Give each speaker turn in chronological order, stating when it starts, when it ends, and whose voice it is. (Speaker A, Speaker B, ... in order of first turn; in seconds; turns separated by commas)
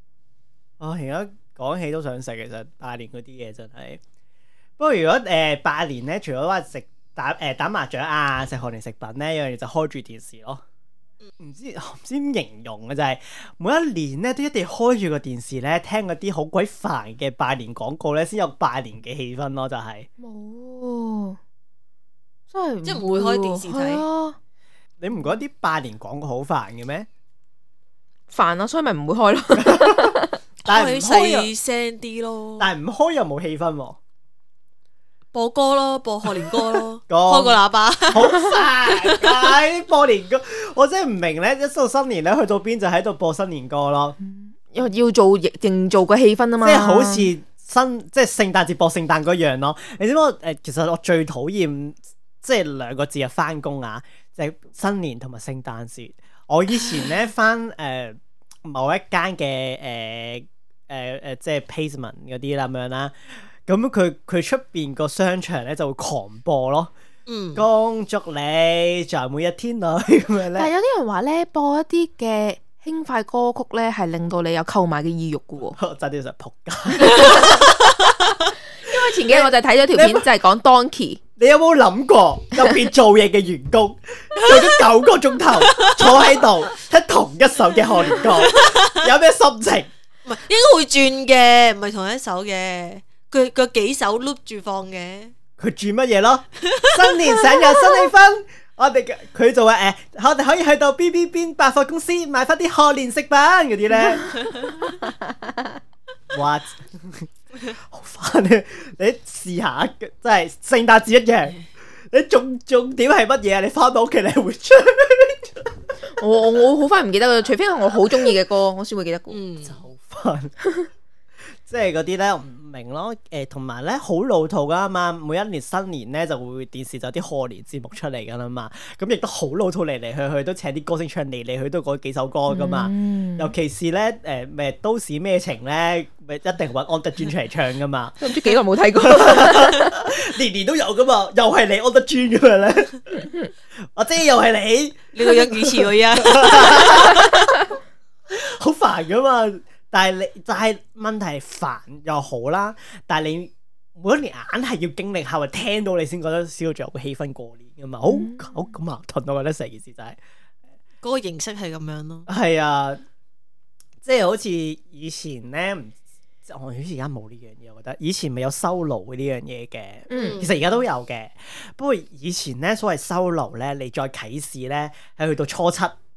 Speaker A: 0.8-4.0, Speaker A: 4.8-10.6, Speaker A: 11.4-20.1, Speaker B: 20.2-21.4, Speaker B: 22.5-24.4, Speaker C: 22.8-24.0, Speaker A: 25.0-27.1, Speaker B: 28.3-30.4, Speaker A: 29.6-30.1, Speaker A: 30.6-31.5, Speaker C: 30.6-32.7, Speaker A: 32.6-34.0, Speaker C: 35.3-38.5, Speaker A: 36.3-44.2, Speaker C: 39.0-39.3, Speaker B: 44.2-47.3, Speaker A: 46.6-66.9, Speaker C: 67.3-67.6, Speaker A: 67.5-70.7, Speaker B: 70.5-75.8, Speaker A: 75.7-78.1, Speaker B: 77.1-77.7, Speaker B: 78.8-81.2, Speaker A: 78.9-80.3, Speaker A: 81.4-89.9, Speaker C: 84.4-84.8, Speaker C: 85.6-86.2, Speaker C: 88.4-88.9, Speaker C: 90.2-95.3, Speaker A: 95.6-104.5, Speaker C: 96.7-97.3, Speaker C: 104.4-104.8, Speaker A: 106.3-111.6, Speaker A: 112.1-115.8, Speaker B: 116.2-119.4, Speaker C: 119.3-119.8, Speaker A: 119.7-120.5, Speaker B: 120.6-120.9, Speaker A: 121.7-138.3, Speaker B: 132.5-133.5, Speaker B: 138.2-140.0, Speaker A: 139.0-143.2, Speaker A: 143.9-147.4, Speaker C: 145.1-147.5, Speaker A: 148.3-160.2, Speaker B: 158.1-158.7, Speaker C: 161.0-162.3, Speaker A: 162.3-163.0, Speaker A: 164.0-165.9, Speaker A: 166.4-175.9, Speaker B: 170.1-170.4, Speaker C: 170.1-170.5